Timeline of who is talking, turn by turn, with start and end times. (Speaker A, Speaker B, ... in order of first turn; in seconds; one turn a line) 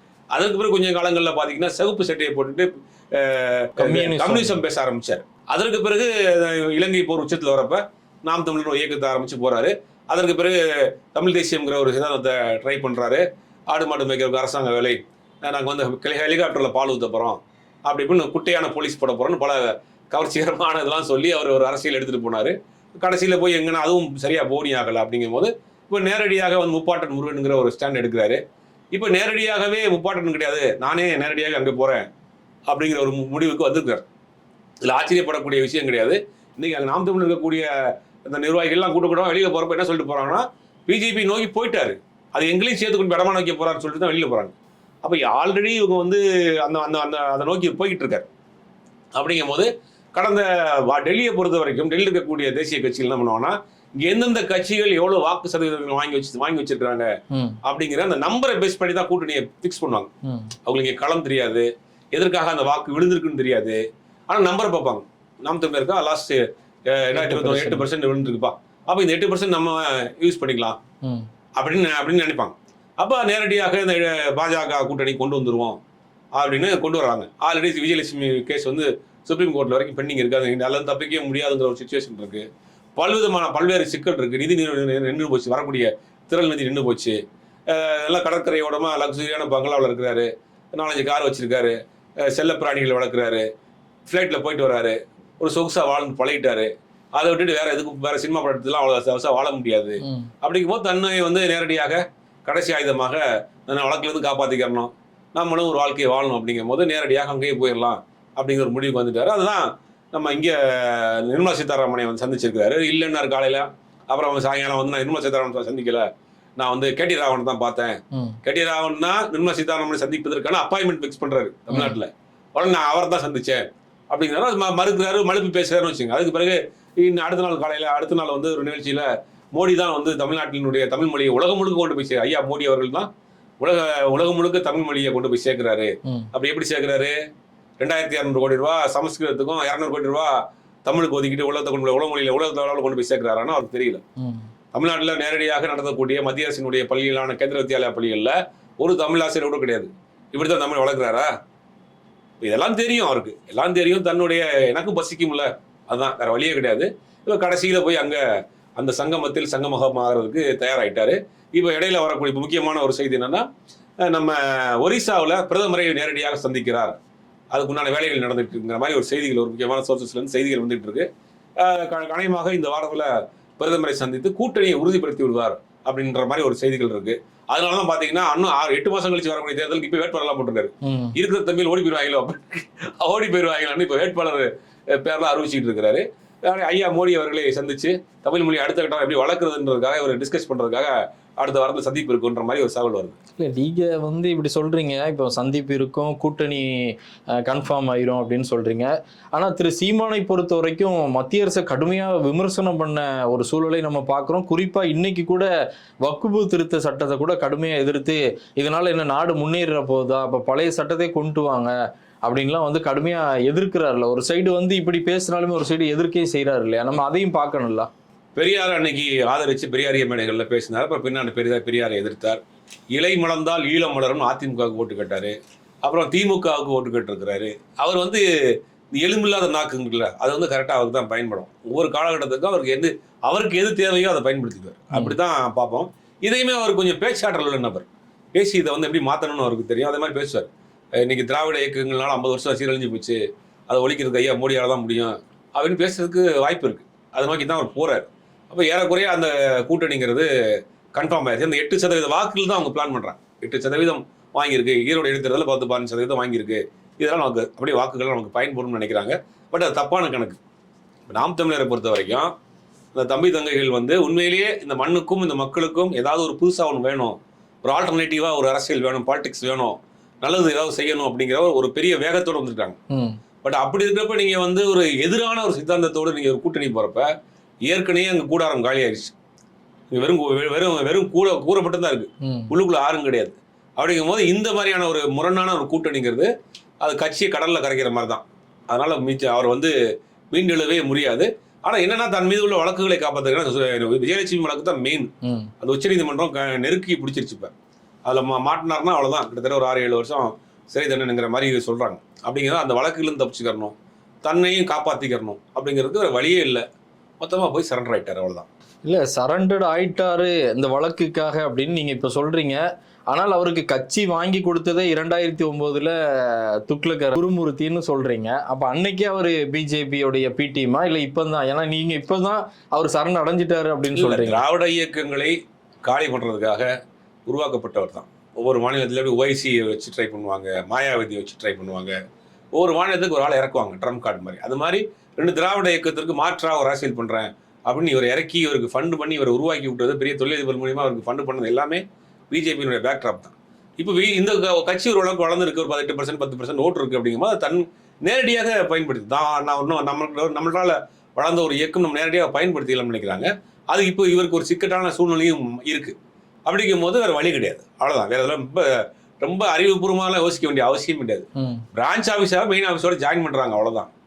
Speaker A: 0.3-28.4
Speaker B: 3.8-4.6
Speaker A: 28.9-32.1
Speaker A: 32.7-34.0
Speaker A: 34.8-48.3
Speaker A: 49.1-57.1
Speaker B: 57.3-57.6
Speaker A: 57.6-60.1
Speaker B: 60.2-60.5
Speaker A: 60.6-70.8
Speaker B: 67.1-67.9
Speaker A: 71.6-75.8
Speaker A: 76.3-82.5
Speaker A: 83.0-93.5
Speaker A: 94.1-116.0
Speaker B: 100.0-100.3
Speaker A: 116.6-133.1
Speaker B: 118.1-118.4
Speaker B: 121.7-122.0
Speaker A: 133.6-137.1
Speaker A: 137.8-144.0
Speaker B: 144.2-144.4
Speaker A: 144.7-151.3
Speaker A: 152.4-158.2
Speaker A: 158.8-163.4
Speaker A: 164.0-167.0
Speaker A: 167.5-171.1
Speaker A: 171.6-193.2
Speaker B: 180.8-181.1
Speaker B: 193.4-205.4
Speaker B: 206.0-211.7
Speaker B: 212.2-217.9
Speaker A: 218.3-222.4
Speaker A: 222.9-228.2
Speaker A: 228.9-240.5
Speaker A: 241.0-250.3
Speaker A: 250.9-260.4
Speaker A: 261.1-262.3
Speaker A: 262.9-272.8
Speaker B: 272.9-273.2
Speaker A: 273.4-277.1
Speaker A: 277.7-279.1
Speaker A: 279.9-286.3
Speaker B: 282.2-282.5
Speaker A: 286.8-289.7
Speaker A: 290.3-295.1
Speaker B: 295.2-295.5
Speaker A: 295.6-297.5
Speaker A: 298.1-306.6
Speaker A: 307.2-308.5
Speaker B: 308.8-324.4
Speaker A: 323.9-325.3
Speaker A: 325.9-326.7
Speaker A: 327.3-331.9
Speaker A: 332.5-355.9
Speaker A: 356.4-363.9